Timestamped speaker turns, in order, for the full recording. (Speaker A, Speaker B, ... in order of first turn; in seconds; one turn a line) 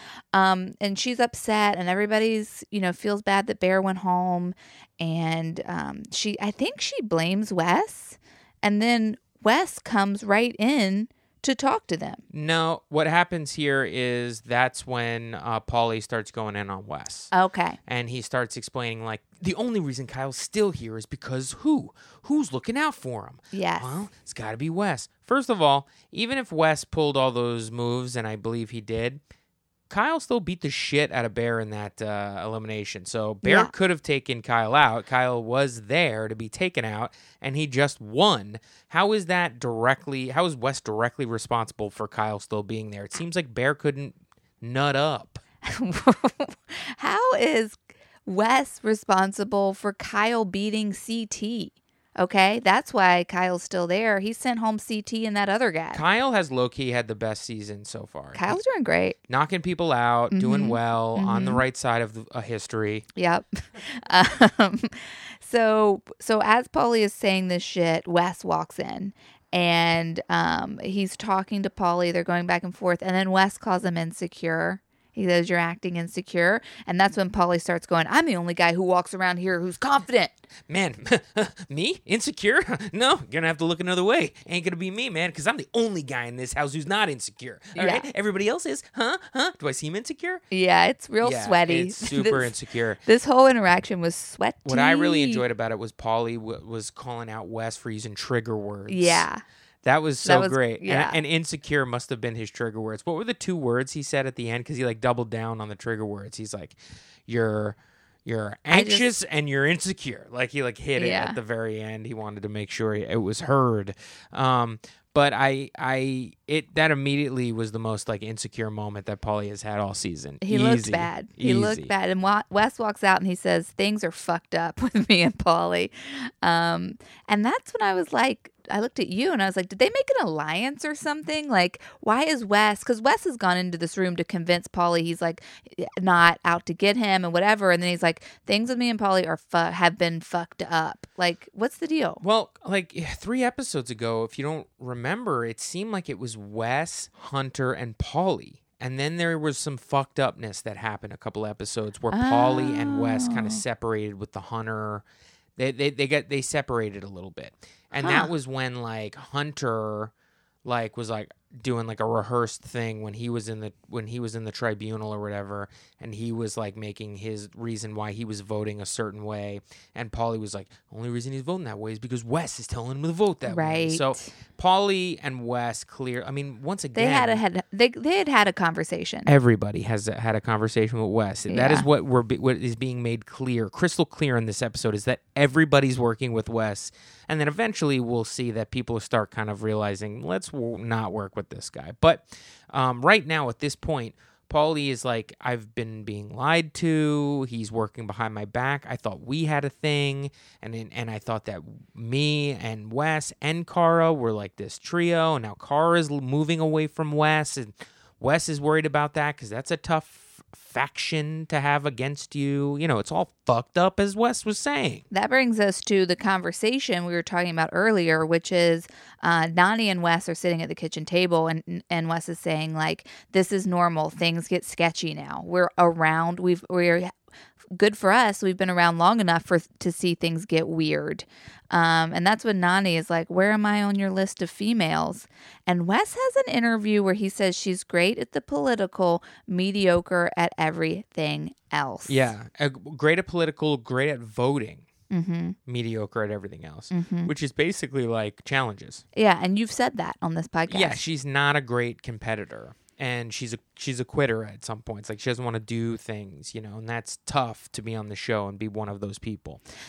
Speaker A: 0.3-12.2
Speaker B: 12.3-17.3
Speaker A: 17.3-17.8
Speaker B: 17.8-29.2
Speaker A: 23.5-24.1
Speaker B: 29.9-45.4
Speaker A: 33.4-33.7
Speaker A: 45.6-56.0
Speaker B: 55.9-58.6
Speaker A: 58.3-59.2
Speaker B: 59.3-63.0
Speaker A: 60.3-61.6
Speaker A: 63.1-80.3
Speaker B: 80.7-90.4
Speaker A: 87.8-88.0
Speaker A: 90.5-92.5
Speaker B: 91.2-93.0
Speaker A: 93.0-95.4
Speaker B: 94.7-99.3
Speaker A: 98.9-99.4
Speaker B: 99.8-121.9
Speaker A: 100.2-101.2
Speaker A: 108.7-109.1
Speaker A: 111.0-111.4
Speaker A: 120.4-142.2
Speaker B: 142.2-155.0
Speaker A: 152.1-153.6
Speaker B: 155.6-160.1
Speaker A: 158.0-158.3
Speaker B: 160.6-177.4
Speaker A: 173.5-174.3
Speaker A: 176.9-179.3
Speaker B: 179.2-215.0
Speaker A: 181.5-181.9
Speaker A: 215.1-227.1
Speaker A: 227.7-242.3
Speaker B: 242.1-244.9
Speaker A: 245.1-245.6
Speaker B: 245.7-249.0
Speaker A: 246.9-247.3
Speaker A: 249.1-251.0
Speaker B: 250.7-259.6